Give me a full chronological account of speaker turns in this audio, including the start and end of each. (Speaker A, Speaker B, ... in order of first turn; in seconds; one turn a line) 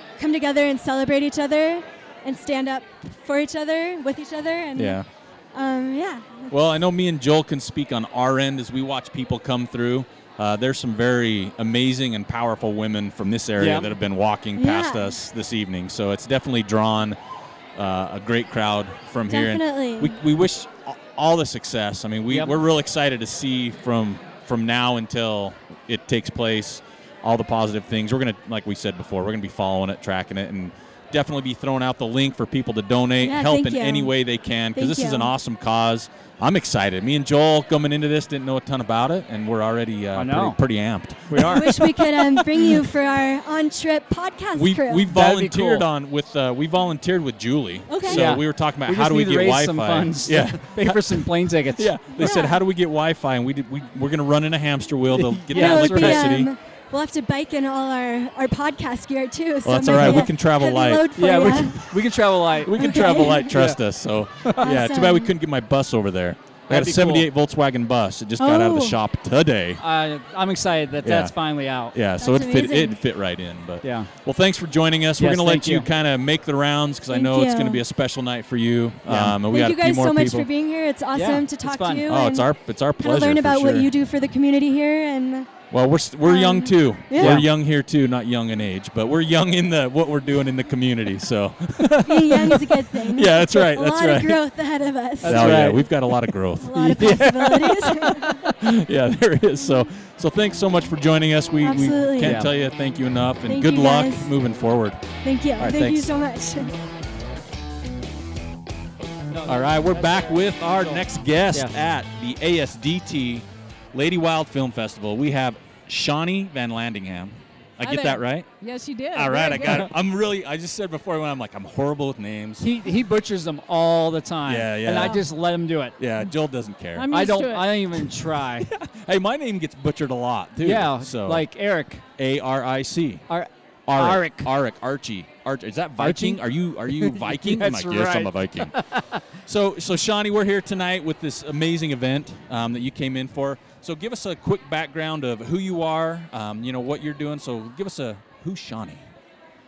Speaker A: 0.2-5.0
Speaker B: 4.8-5.1
Speaker A: 5.5-6.7
Speaker B: 6.5-17.2
Speaker C: 13.6-13.9
Speaker A: 14.6-15.2
Speaker B: 17.8-42.8
Speaker A: 19.3-20.2
Speaker C: 22.3-22.6
Speaker A: 33.2-34.1
Speaker A: 34.8-35.3
Speaker C: 40.1-40.6
Speaker C: 41.3-41.8
Speaker A: 41.5-45.1
Speaker B: 44.5-56.5
Speaker C: 45.1-45.9
Speaker A: 47.9-48.3
Speaker C: 48.1-51.9
Speaker A: 52.2-52.6
Speaker C: 55.1-56.4
Speaker A: 55.5-61.9
Speaker B: 59.6-61.5
Speaker C: 60.0-60.3
Speaker C: 61.2-63.8
Speaker B: 62.6-69.8
Speaker A: 62.8-63.5
Speaker A: 64.6-65.3
Speaker C: 66.7-67.3
Speaker A: 68.4-69.0
Speaker C: 69.8-72.0
Speaker B: 71.0-71.3
Speaker B: 71.9-80.5
Speaker A: 72.2-73.0
Speaker C: 73.8-74.1
Speaker C: 75.2-75.9
Speaker A: 77.1-77.8
Speaker C: 79.1-79.4
Speaker A: 79.5-85.5
Speaker C: 81.1-82.1
Speaker B: 82.1-83.9
Speaker B: 85.7-94.4
Speaker A: 86.2-87.5
Speaker C: 87.2-87.5
Speaker A: 92.1-95.7
Speaker C: 95.2-95.9
Speaker B: 95.3-105.1
Speaker A: 96.6-98.4
Speaker C: 96.7-98.5
Speaker A: 101.6-102.4
Speaker C: 102.2-102.5
Speaker A: 103.5-104.3
Speaker A: 105.2-106.7
Speaker B: 105.6-106.1
Speaker C: 109.3-111.7
Speaker B: 109.5-118.5
Speaker D: 117.8-119.9
Speaker B: 119.1-122.7
Speaker C: 122.6-126.0
Speaker B: 124.5-125.2
Speaker B: 126.0-127.1
Speaker D: 127.0-127.8
Speaker C: 127.1-128.7
Speaker B: 128.6-131.4
Speaker C: 130.6-132.0
Speaker B: 132.2-133.3
Speaker C: 133.3-134.5
Speaker B: 133.9-138.7
Speaker C: 136.0-139.2
Speaker B: 139.5-149.1